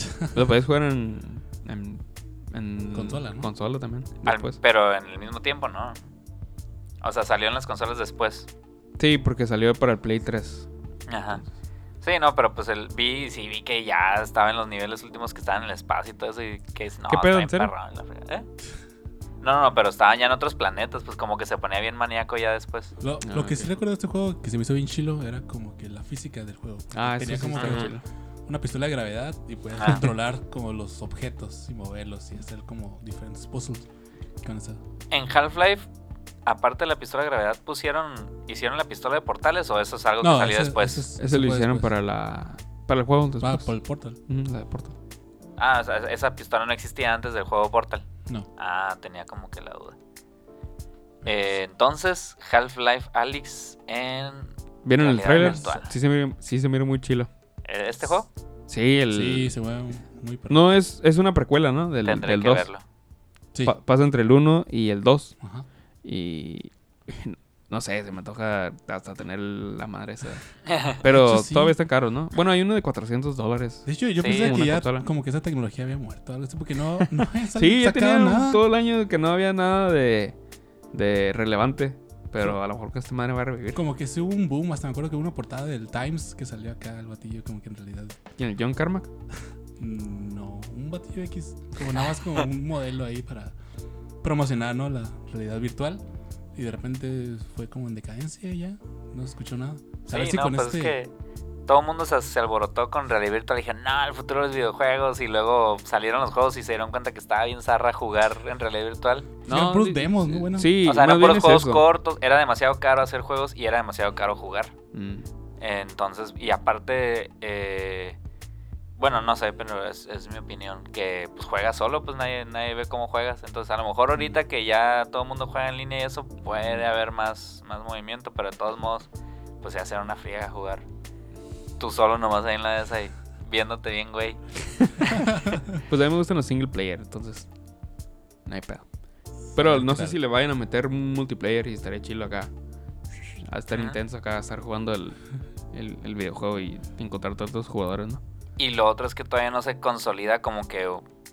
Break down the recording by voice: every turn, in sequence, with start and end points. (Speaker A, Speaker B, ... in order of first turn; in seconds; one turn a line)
Speaker A: 0.3-4.6
Speaker B: 2.9-3.5
Speaker C: 4.3-6.0
Speaker C: 7.0-8.5
Speaker A: 9.0-10.7
Speaker C: 11.1-11.4
Speaker C: 12.0-18.5
Speaker A: 17.1-17.7
Speaker C: 19.4-22.9
Speaker B: 23.0-28.0
Speaker A: 23.2-23.7
Speaker A: 26.9-28.0
Speaker C: 27.6-27.9
Speaker B: 28.5-33.9
Speaker C: 29.8-30.0
Speaker B: 34.4-34.8
Speaker C: 35.1-35.9
Speaker C: 36.5-41.1
Speaker B: 40.2-41.9
Speaker A: 41.2-43.7
Speaker B: 43.4-44.2
Speaker A: 44.3-45.0
Speaker C: 45.6-48.1
Speaker C: 48.6-50.0
Speaker C: 51.2-55.9
Speaker A: 54.9-57.3
Speaker B: 55.4-55.7
Speaker C: 57.7-58.3
Speaker A: 58.7-59.5
Speaker B: 59.1-60.6
Speaker A: 60.5-62.7
Speaker C: 62.0-62.8
Speaker A: 63.6-65.4
Speaker B: 65.4-65.7
Speaker A: 66.0-75.1
Speaker B: 71.0-71.8
Speaker B: 73.8-78.6
Speaker C: 74.2-74.6
Speaker A: 77.0-80.3
Speaker A: 80.9-83.8
Speaker B: 83.7-88.2
Speaker A: 88.4-89.1
Speaker B: 89.8-93.5
Speaker B: 94.2-96.0
Speaker B: 96.5-101.0
Speaker C: 100.1-101.1
Speaker C: 101.7-109.3
Speaker B: 109.5-110.7
Speaker A: 109.5-111.8
Speaker C: 110.8-114.7
Speaker A: 114.9-115.3
Speaker C: 115.6-118.2
Speaker C: 119.0-129.1
Speaker C: 129.6-130.8
Speaker C: 131.8-134.4
Speaker A: 135.9-137.5
Speaker A: 138.5-138.8
Speaker A: 139.6-142.5
Speaker B: 139.6-140.2
Speaker A: 143.4-145.2
Speaker C: 143.7-144.0
Speaker A: 145.7-148.2
Speaker C: 148.6-151.1